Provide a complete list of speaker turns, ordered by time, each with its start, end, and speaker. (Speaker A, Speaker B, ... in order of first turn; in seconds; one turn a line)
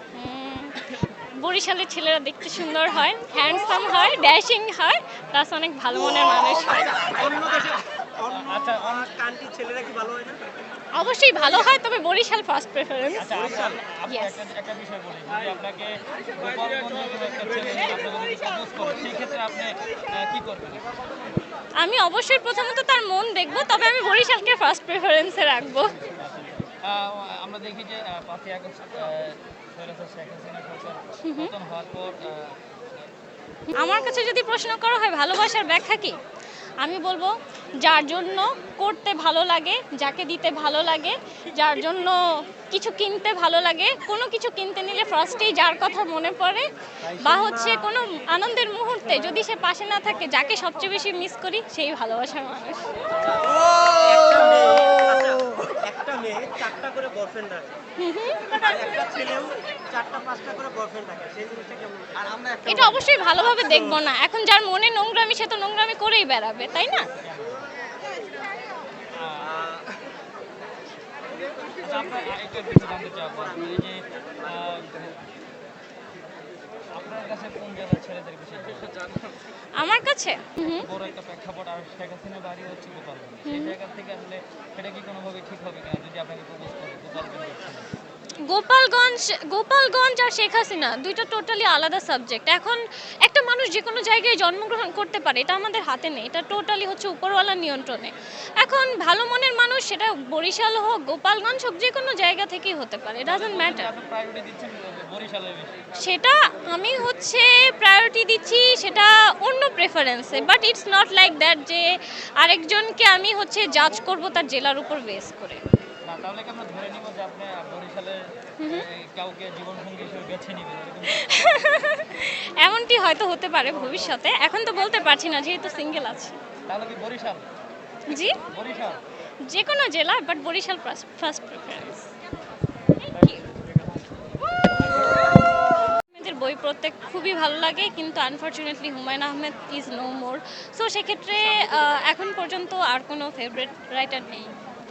Speaker A: 0.1-7.2
Speaker B: 7.1-10.4
Speaker C: 8.3-9.1
Speaker A: 10.9-13.4
Speaker C: 13.2-20.9
Speaker B: 13.3-13.8
Speaker A: 14.1-14.4
Speaker A: 21.8-26.0
Speaker C: 26.0-33.1
Speaker A: 31.2-31.5
Speaker A: 33.7-36.2
Speaker A: 36.8-52.9
Speaker B: 53.3-57.8
Speaker A: 58.0-58.7
Speaker B: 58.5-62.6
Speaker A: 62.6-67.1
Speaker C: 67.2-67.6
Speaker C: 69.1-69.6
Speaker B: 69.5-69.9
Speaker C: 71.8-75.2
Speaker C: 76.9-79.1
Speaker A: 79.8-80.9
Speaker C: 80.7-87.9
Speaker A: 83.5-83.7
Speaker A: 88.5-103.9
Speaker C: 103.2-105.8
Speaker A: 106.0-115.6
Speaker C: 116.0-121.8
Speaker A: 118.6-118.8
Speaker A: 121.1-126.4
Speaker C: 126.7-127.4
Speaker A: 128.1-128.4
Speaker C: 128.5-129.0
Speaker A: 129.4-132.1
Speaker A: 133.1-133.4
Speaker C: 133.1-133.8
Speaker A: 135.9-144.5